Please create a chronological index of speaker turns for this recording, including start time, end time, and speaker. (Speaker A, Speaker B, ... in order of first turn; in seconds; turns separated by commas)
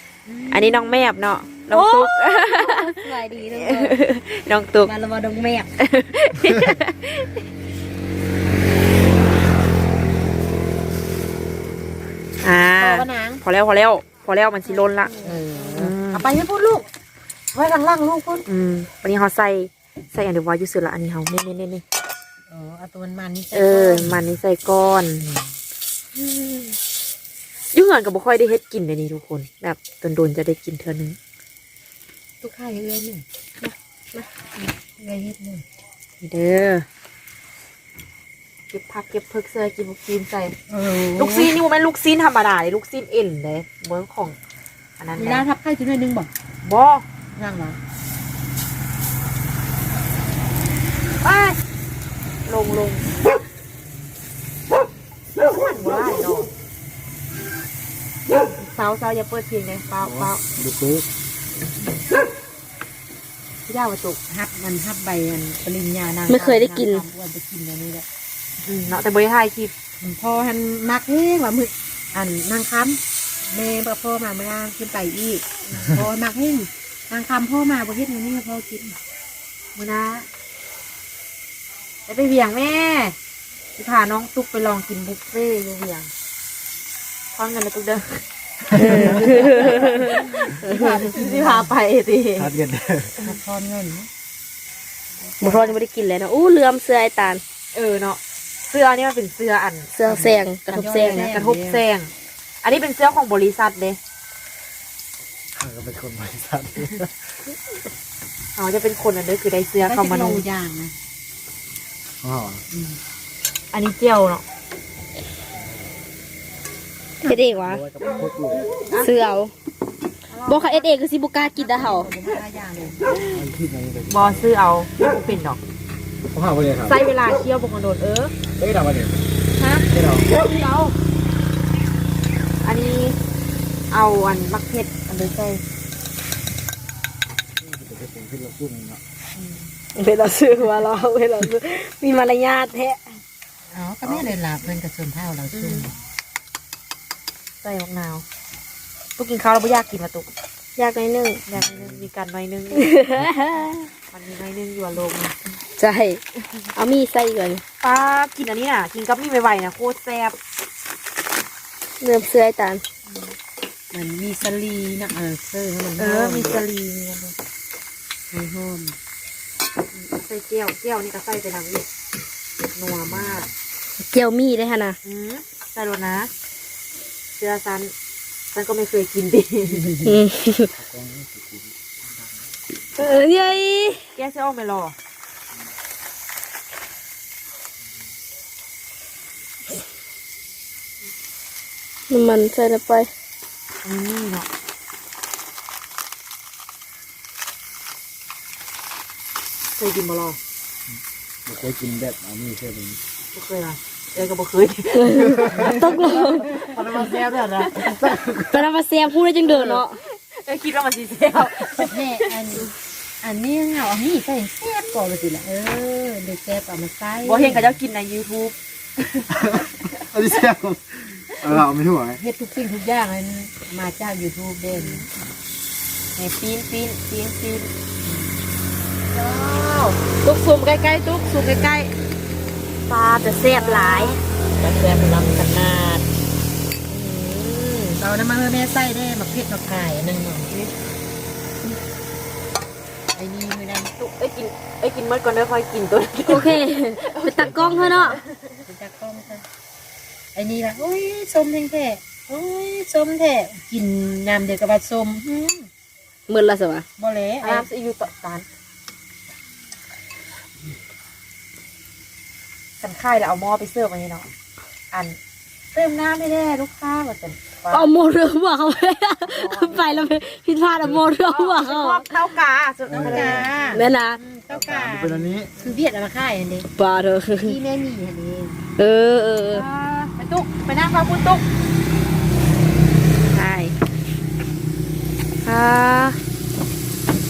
Speaker A: 0.3-1.0, Speaker B: 0.5-3.0, Speaker C: 1.7-4.0, Speaker B: 3.5-4.9, Speaker C: 4.8-5.7, Speaker B: 5.8-7.4, Speaker B: 12.4-15.1, Speaker A: 12.8-13.4, Speaker C: 15.1-15.7, Speaker A: 15.2-16.9, Speaker B: 15.8-16.2, Speaker A: 17.5-18.4, Speaker B: 18.4-21.8, Speaker A: 22.5-24.2, Speaker B: 23.5-25.3, Speaker B: 26.1-26.8, Speaker B: 27.7-31.2, Speaker A: 32.4-33.2, Speaker A: 34.8-35.6, Speaker B: 36.2-36.9, Speaker B: 38.7-40.5, Speaker A: 40.7-41.5, Speaker B: 41.1-44.4, Speaker B: 45.0-45.4, Speaker A: 45.1-46.3, Speaker B: 46.6-47.0, Speaker A: 47.3-47.8, Speaker B: 51.2-51.6, Speaker B: 52.5-53.1, Speaker B: 55.4-56.5, Speaker B: 58.6-60.4, Speaker D: 60.0-61.1, Speaker B: 63.7-64.2, Speaker A: 64.2-68.0, Speaker C: 66.3-67.0, Speaker B: 68.6-69.7, Speaker A: 70.0-79.0, Speaker B: 79.8-80.3, Speaker B: 82.1-83.2, Speaker B: 83.8-86.1, Speaker B: 87.3-88.2, Speaker C: 88.7-91.1, Speaker B: 88.8-90.5, Speaker A: 89.6-91.7, Speaker B: 91.1-92.5, Speaker D: 92.4-93.1, Speaker A: 93.2-94.1, Speaker C: 95.4-97.4, Speaker A: 95.4-95.7, Speaker B: 97.7-99.9, Speaker C: 99.9-101.2, Speaker A: 100.0-101.8, Speaker B: 101.0-102.1, Speaker B: 102.6-104.0, Speaker D: 105.5-107.1, Speaker B: 108.5-110.4, Speaker A: 109.8-110.9, Speaker D: 112.2-112.6, Speaker A: 112.7-113.0, Speaker B: 113.7-114.4, Speaker D: 115.5-115.8, Speaker C: 117.2-117.8, Speaker D: 117.3-118.7, Speaker C: 119.0-119.5, Speaker A: 120.3-123.0, Speaker C: 120.5-122.1, Speaker D: 123.3-124.5, Speaker B: 124.1-125.6, Speaker D: 126.3-127.0, Speaker B: 126.8-128.3, Speaker D: 128.6-129.2, Speaker B: 129.6-129.8, Speaker D: 129.9-130.3, Speaker B: 130.4-130.9, Speaker B: 132.6-133.2, Speaker B: 133.9-135.6, Speaker D: 137.6-139.0, Speaker C: 139.9-143.2, Speaker A: 143.7-145.9, Speaker B: 145.5-145.9, Speaker B: 147.6-148.2, Speaker B: 149.2-150.3, Speaker C: 150.8-151.4, Speaker B: 151.5-152.9, Speaker D: 151.6-152.0, Speaker C: 152.7-153.9, Speaker B: 154.1-155.3, Speaker C: 155.8-156.2, Speaker C: 156.7-157.6, Speaker B: 157.8-160.3, Speaker C: 162.0-162.8, Speaker A: 163.9-166.6, Speaker B: 166.0-167.3, Speaker A: 168.3-168.9, Speaker B: 169.9-171.9, Speaker B: 172.7-173.5, Speaker D: 173.1-173.4, Speaker C: 174.0-175.0, Speaker B: 175.0-176.3, Speaker B: 177.4-177.9, Speaker B: 178.5-179.9, Speaker C: 180.0-180.7, Speaker D: 180.7-182.4, Speaker C: 182.9-184.1, Speaker B: 184.1-184.9, Speaker C: 192.1-193.1, Speaker B: 193.8-194.5, Speaker B: 199.8-200.4, Speaker D: 201.4-203.0, Speaker B: 203.3-208.2, Speaker C: 205.0-206.6, Speaker A: 205.5-207.7, Speaker C: 208.5-210.0, Speaker B: 209.4-212.3, Speaker A: 211.4-212.7, Speaker A: 213.2-217.7, Speaker B: 217.2-218.5, Speaker D: 219.4-222.2, Speaker A: 222.1-225.0, Speaker B: 224.7-225.1, Speaker B: 226.2-227.7, Speaker B: 229.1-231.9, Speaker B: 232.9-236.0, Speaker A: 233.5-234.2, Speaker C: 236.9-237.9, Speaker A: 238.0-240.5, Speaker A: 243.1-243.9, Speaker B: 244.0-247.7, Speaker C: 246.3-248.2, Speaker D: 247.3-248.2, Speaker A: 248.6-249.4, Speaker A: 250.3-255.2, Speaker B: 255.2-255.7, Speaker C: 256.3-256.9, Speaker A: 257.0-257.6, Speaker B: 257.4-258.4, Speaker B: 262.8-264.2, Speaker B: 264.9-265.2, Speaker B: 265.7-267.9, Speaker C: 267.7-272.0, Speaker A: 269.4-270.0, Speaker B: 271.2-273.7, Speaker D: 272.9-273.5, Speaker A: 272.9-276.7, Speaker C: 273.7-274.2, Speaker D: 274.5-275.5, Speaker C: 276.8-277.6, Speaker A: 277.4-278.6, Speaker C: 278.8-279.6, Speaker B: 279.5-281.4, Speaker C: 283.3-283.7, Speaker B: 285.4-286.2